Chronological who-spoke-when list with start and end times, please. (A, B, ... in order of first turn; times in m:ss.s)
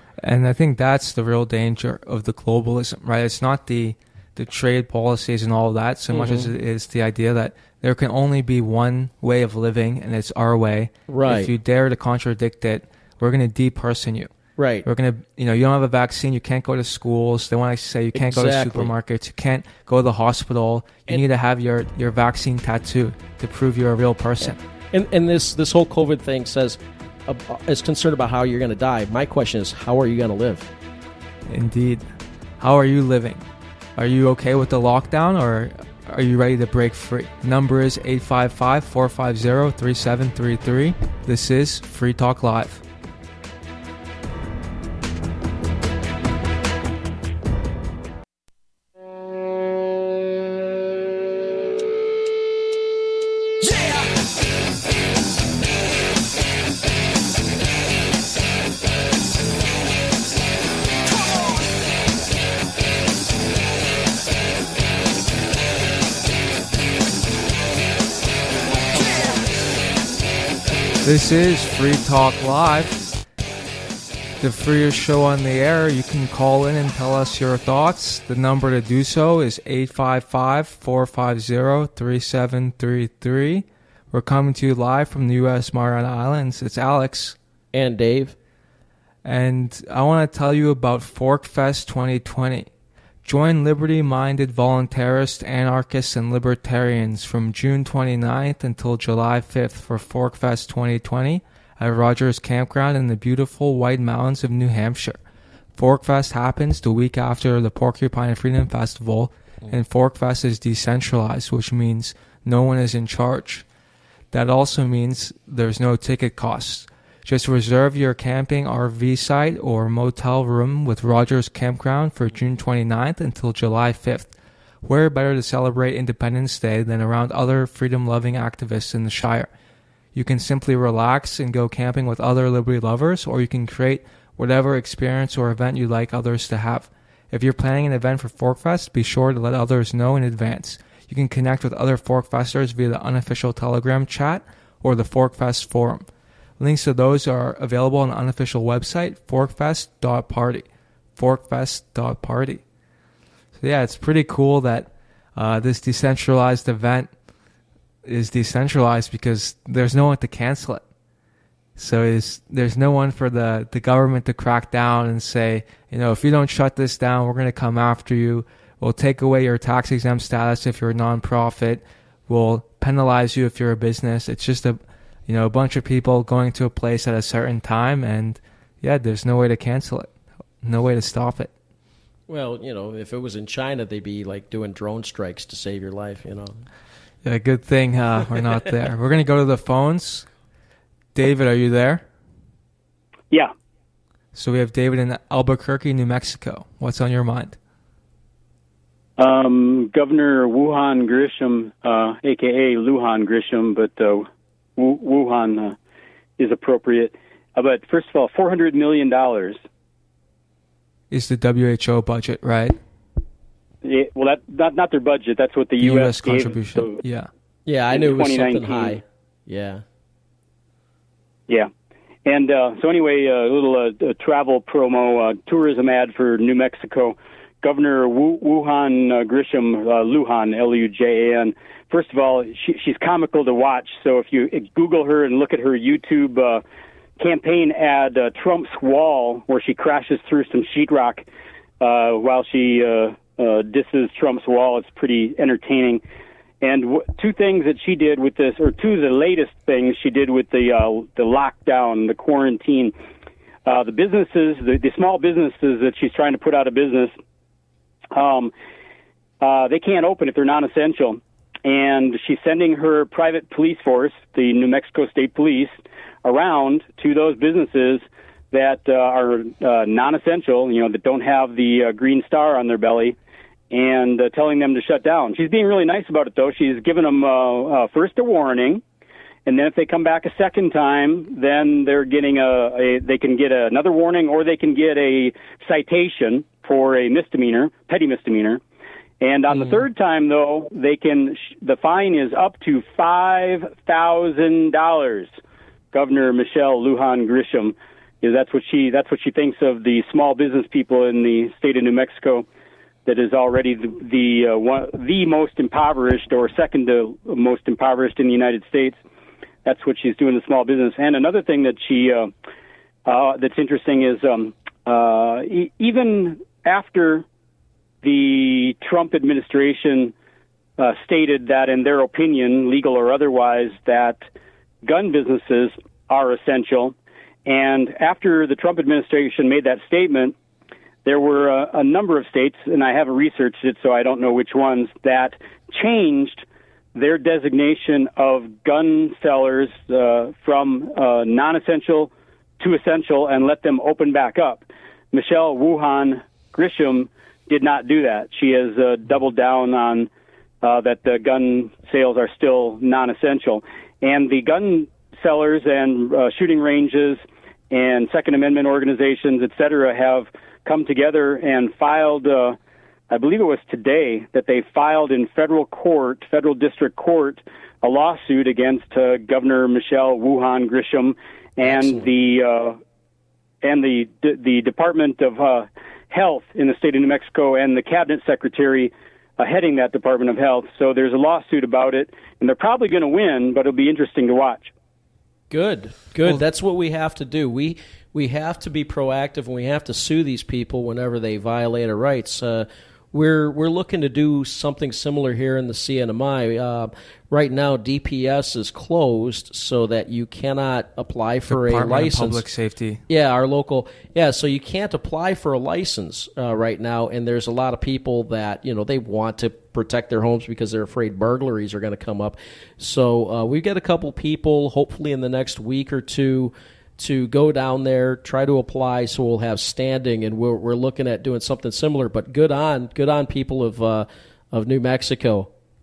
0:00.2-0:14.3 A
0:06.1-0:06.5 B
0:11.1-0:11.5 B
0:14.6-0:14.9 B
0:14.8-0:24.6 A
0:18.1-0:18.9 B
0:24.9-0:30.7 B
0:31.5-0:32.0 A
0:32.6-0:33.4 A
0:34.0-0:42.8 A
1:11.0-1:13.1 A
1:14.4-1:27.4 A
1:27.7-1:28.4 B
1:29.2-1:32.7 A
1:33.2-1:45.2 A
1:45.8-1:53.6 A
1:54.3-2:09.5 A
2:10.1-2:26.1 A
2:26.6-2:32.6 A
2:33.6-2:37.1 A
2:38.0-2:40.8 A
2:41.8-3:01.5 A
3:02.3-3:06.6 B
3:07.2-3:10.3 A
3:11.1-3:12.0 A
3:14.3-3:17.6 A
3:19.2-3:25.8 C
3:26.4-3:29.6 C
3:31.1-3:32.8 A
3:33.8-3:37.0 C
3:35.8-3:37.3 A
3:37.6-3:39.8 B
3:37.9-3:39.0 C
3:42.2-3:56.6 C
3:57.2-4:01.2 C
4:01.8-4:06.0 C
4:06.6-4:12.9 C
4:13.6-4:17.1 C
4:18.1-4:18.5 C
4:19.4-4:33.2 C
4:33.7-4:38.8 C
4:39.4-4:48.6 C
4:49.2-4:55.3 C
4:49.5-4:49.8 B
4:55.9-5:02.4 C
5:03.0-5:09.0 C
5:09.6-5:12.3 C
5:13.0-5:17.2 C
5:18.0-5:20.1 C
5:20.8-5:24.2 C
5:24.8-5:26.9 C
5:27.4-5:30.3 C
5:31.0-5:50.1 C
5:50.6-6:02.6 C
6:03.1-6:12.8 C
6:11.6-6:12.1 B
6:13.6-6:24.7 C
6:25.5-6:42.4 B
6:41.5-6:43.0 A
6:43.1-7:05.5 B